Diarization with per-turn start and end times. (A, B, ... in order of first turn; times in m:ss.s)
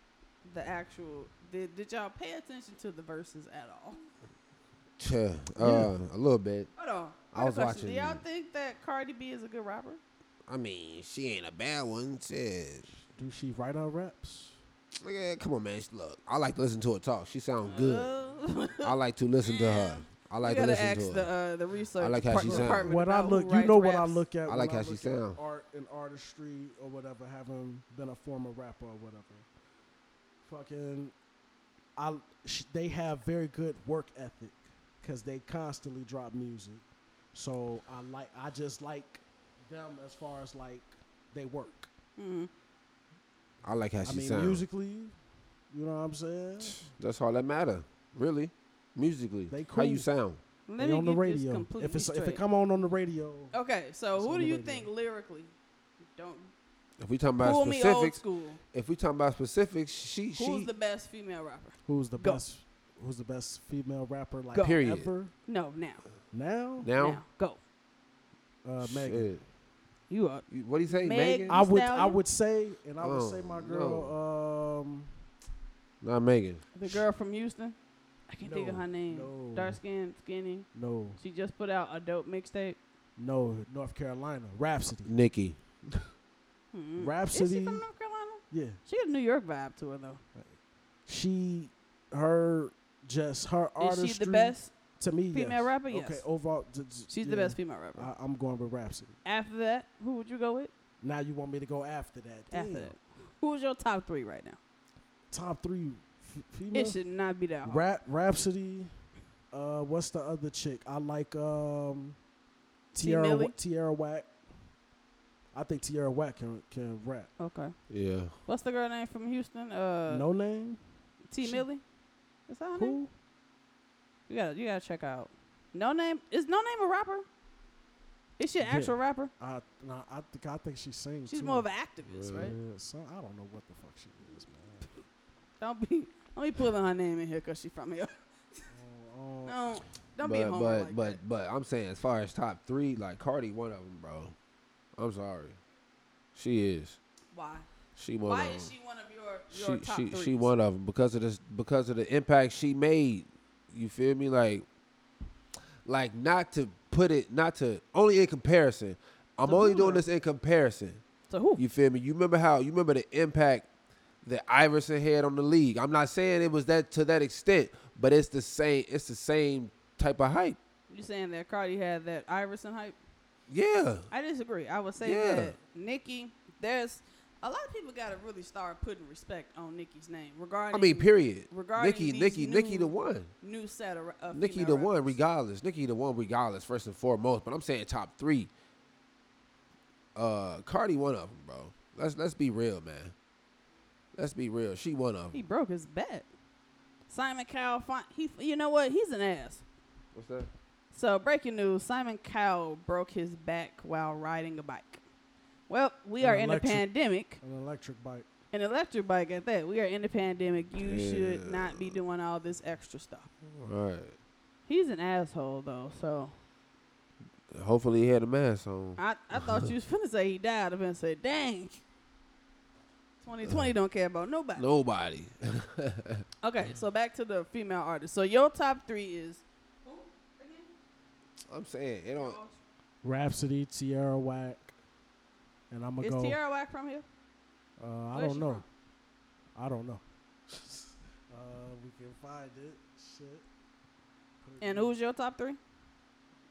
0:00.4-0:04.0 A
0:05.0-0:06.7 B
0:05.6-0:05.9 C
0:06.8-0:10.0 A
0:07.3-0:08.2 B
0:10.5-0:12.9 B
0:13.1-0:14.6 C
0:15.0-0:18.1 B
0:17.6-0:24.2 A
0:18.8-0:21.3 B
0:22.0-0:22.9 B
0:22.3-0:29.4 C
0:24.5-0:25.4 B
0:30.4-0:31.1 C
0:32.0-0:36.8 C
0:37.3-0:41.9 C
0:42.2-0:42.5 A
0:43.6-0:44.6 B
0:44.0-0:45.1 C
0:45.7-0:46.9 C
0:46.7-0:50.4 B
0:49.5-0:50.1 C
0:50.7-0:52.4 A
0:50.8-0:53.5 C
0:53.5-0:55.5 A
0:54.1-0:54.9 C
0:56.2-0:56.5 A
0:57.0-0:58.2 B
0:57.4-0:58.6 A
0:58.7-1:00.7 B
1:00.3-1:02.4 A
1:01.8-1:05.3 C
1:04.6-1:05.1 B
1:05.5-1:06.0 A
1:06.3-1:06.9 C
1:06.8-1:07.2 B
1:07.0-1:07.6 A
1:08.6-1:09.3 C
1:08.8-1:09.4 B
1:10.1-1:12.2 A
1:10.5-1:11.6 B
1:11.5-1:15.1 C
1:13.0-1:14.1 B
1:16.0-1:17.0 B
1:16.7-1:17.8 A
1:18.3-1:20.7 A
1:18.4-1:19.8 C
1:20.7-1:21.2 C
1:21.2-1:22.8 A
1:23.2-1:25.1 C
1:25.0-1:26.1 B
1:26.7-1:30.2 A
1:27.0-1:27.8 C
1:28.5-1:28.8 C
1:31.1-1:39.2 C
1:33.8-1:34.7 A
1:35.3-1:36.2 A
1:37.1-1:38.1 A
1:39.2-1:40.7 A
1:41.0-1:42.9 C
1:42.5-1:44.6 A
1:45.3-1:47.0 C
1:46.7-1:47.9 A
1:47.6-1:48.9 C
1:49.5-1:52.2 C
1:52.9-1:54.3 C
1:52.9-1:53.5 A
1:55.5-1:57.3 C
1:57.4-1:57.7 A
1:57.9-1:58.3 B
1:58.4-2:00.2 A
2:00.1-2:00.8 C
2:01.3-2:01.8 A
2:01.4-2:01.6 C
2:02.5-2:03.0 A
2:02.8-2:03.1 C
2:04.3-2:07.2 A
2:08.4-2:09.3 A
2:08.6-2:11.6 C
2:11.3-2:12.5 A
2:12.0-2:12.5 B
2:12.3-2:14.9 C
2:15.6-2:18.6 A
2:18.7-2:19.6 C
2:19.4-2:21.2 A
2:20.2-2:24.3 B
2:25.0-2:25.6 B
2:26.3-2:27.0 B
2:27.3-2:27.7 A
2:28.0-2:28.7 B
2:28.2-2:30.5 A
2:29.5-2:34.6 B
2:35.8-2:41.0 B
2:39.5-2:40.0 A
2:41.3-2:41.6 A
2:41.6-2:43.7 B
2:44.2-2:50.6 B
2:50.9-2:53.0 A
2:53.5-2:54.1 B
2:54.1-3:05.2 A
2:55.0-2:55.5 B
3:00.7-3:03.3 B
3:04.3-3:08.5 B
3:10.1-3:13.1 B
3:14.1-3:15.4 B
3:15.3-3:16.3 A
3:17.1-3:19.6 A
3:20.1-3:20.5 B
3:20.9-3:25.0 A
3:25.7-3:27.4 A
3:26.2-3:26.8 C
3:27.4-3:28.3 C
3:28.5-3:33.3 A
3:30.8-3:32.0 B
3:33.4-3:34.2 B
3:34.7-3:36.3 A
3:37.5-3:39.7 B
3:39.0-3:41.8 A
3:43.2-3:44.6 A
3:43.4-3:43.7 B
3:44.6-3:46.2 B
3:46.4-3:50.7 A
3:51.5-3:52.4 B
3:52.2-3:52.6 A
3:53.0-3:54.7 C
3:55.7-3:56.4 C
3:56.0-3:57.0 A
3:57.8-3:58.6 C
3:58.1-3:58.6 A
3:59.6-4:03.4 C
4:04.4-4:04.9 C
4:04.6-4:05.6 A